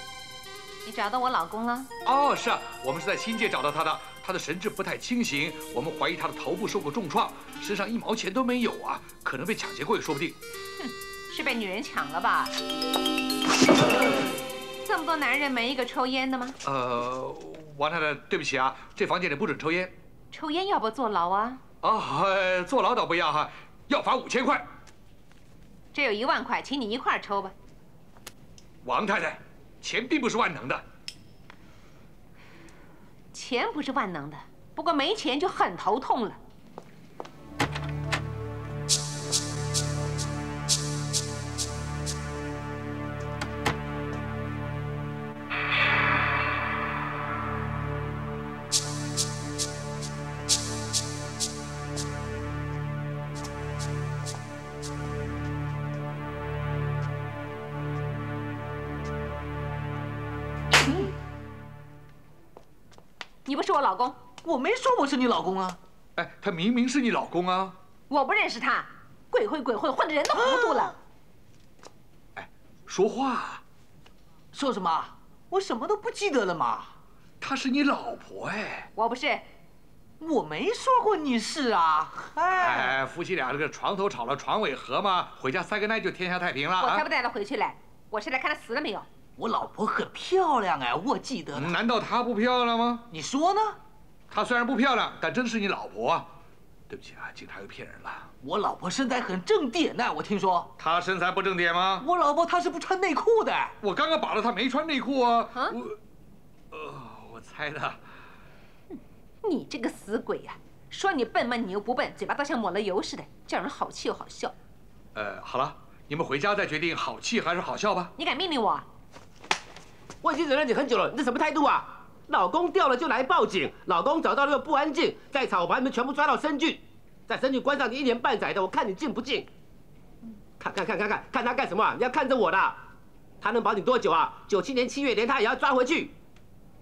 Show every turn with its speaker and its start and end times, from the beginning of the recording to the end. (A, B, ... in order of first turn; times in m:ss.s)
0:00.8-0:01.9 A
0:02.0-0:10.4 B
0:10.8-0:12.5 A
0:14.8-0:16.6 A
0:16.6-0:19.9 B
0:20.3-0:21.6 A
0:21.8-0:24.7 B
0:25.9-0:27.5 A
0:28.8-0:30.8 B
0:33.3-0:36.4 A
1:03.4-1:04.2 A
1:04.4-1:05.8 C
1:06.2-1:07.8 B
1:08.1-1:11.0 A
1:10.3-1:10.9 C
1:12.4-1:13.6 B
1:14.5-1:16.9 C
1:17.4-1:18.9 B
1:19.0-1:19.4 A
1:20.2-1:23.0 C
1:22.6-1:27.0 B
1:26.8-1:29.1 A
1:29.4-1:31.8 C
1:31.5-1:33.0 B
1:33.1-1:33.8 C
1:34.3-1:36.3 B
1:36.9-1:38.3 B
1:38.4-1:40.7 C
1:40.8-1:42.1 B
1:42.0-1:43.7 C
1:43.8-1:46.0 B
1:46.7-1:48.0 B
1:49.4-1:54.5 A
1:55.1-1:58.1 B
1:58.2-1:58.8 A
2:00.2-2:09.5 D
2:10.6-2:12.8 D
2:13.4-2:16.1 D